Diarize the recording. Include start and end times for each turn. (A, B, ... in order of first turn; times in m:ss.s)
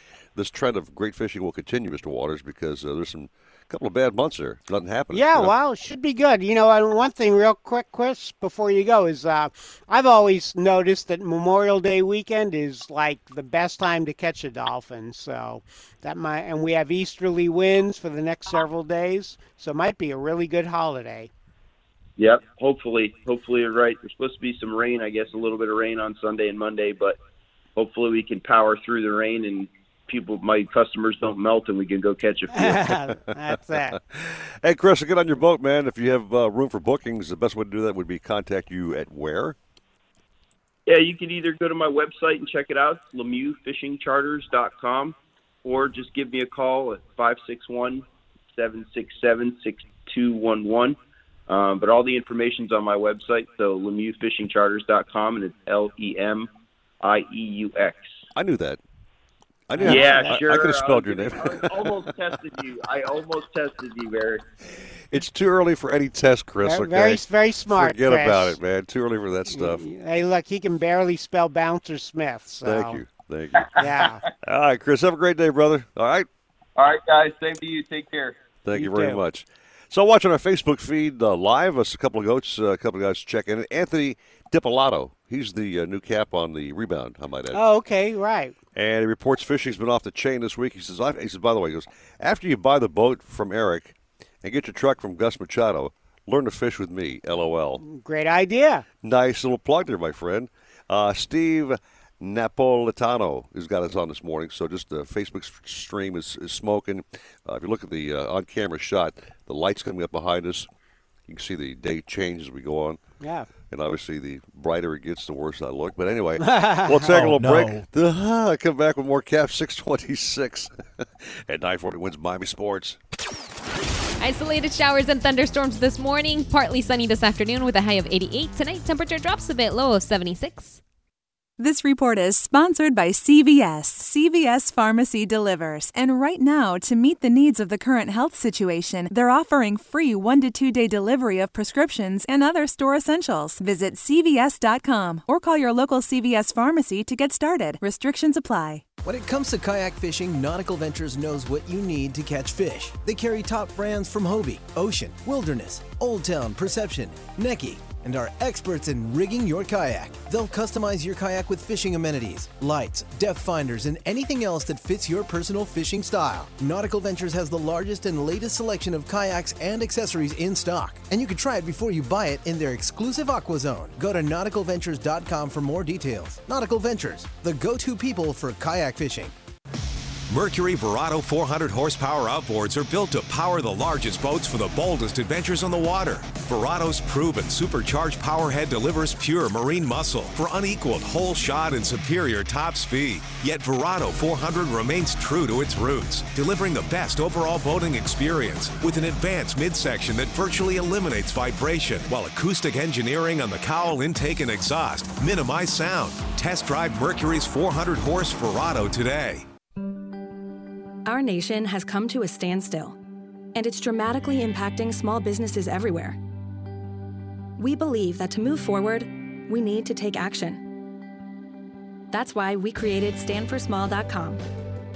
0:00.3-0:05.5 A
0:05.1-0:21.3 B
0:22.2-0:27.2 C
0:27.7-0:32.8 C
0:32.5-0:34.0 B
0:34.0-0:39.6 A
0:40.8-0:56.5 C
0:57.0-0:58.1 C
0:58.3-0:58.8 A
0:59.7-1:02.0 A
0:59.7-1:00.4 B
0:59.8-1:04.4 C
1:05.1-1:09.8 A
1:06.6-1:08.6 B
1:09.5-1:13.0 B
1:12.6-1:13.8 A
1:13.8-1:14.2 B
1:14.4-1:16.3 A
1:16.8-1:18.4 C
1:18.6-1:27.6 A
1:18.7-1:19.2 B
1:27.5-1:28.5 B
1:28.7-1:37.8 A
1:37.8-1:38.8 B
1:39.0-1:50.7 A
1:51.3-1:53.0 A
1:53.2-1:53.5 B
1:53.7-2:00.7 A
1:56.4-1:57.3 B
2:01.2-2:03.0 A
2:04.2-2:10.8 D
2:11.6-2:28.8 E
2:29.0-2:59.3 F
3:00.3-3:29.4 G
3:31.0-3:33.0 H
3:33.5-3:36.2 H
3:37.6-3:40.6 H
3:42.1-3:44.4 H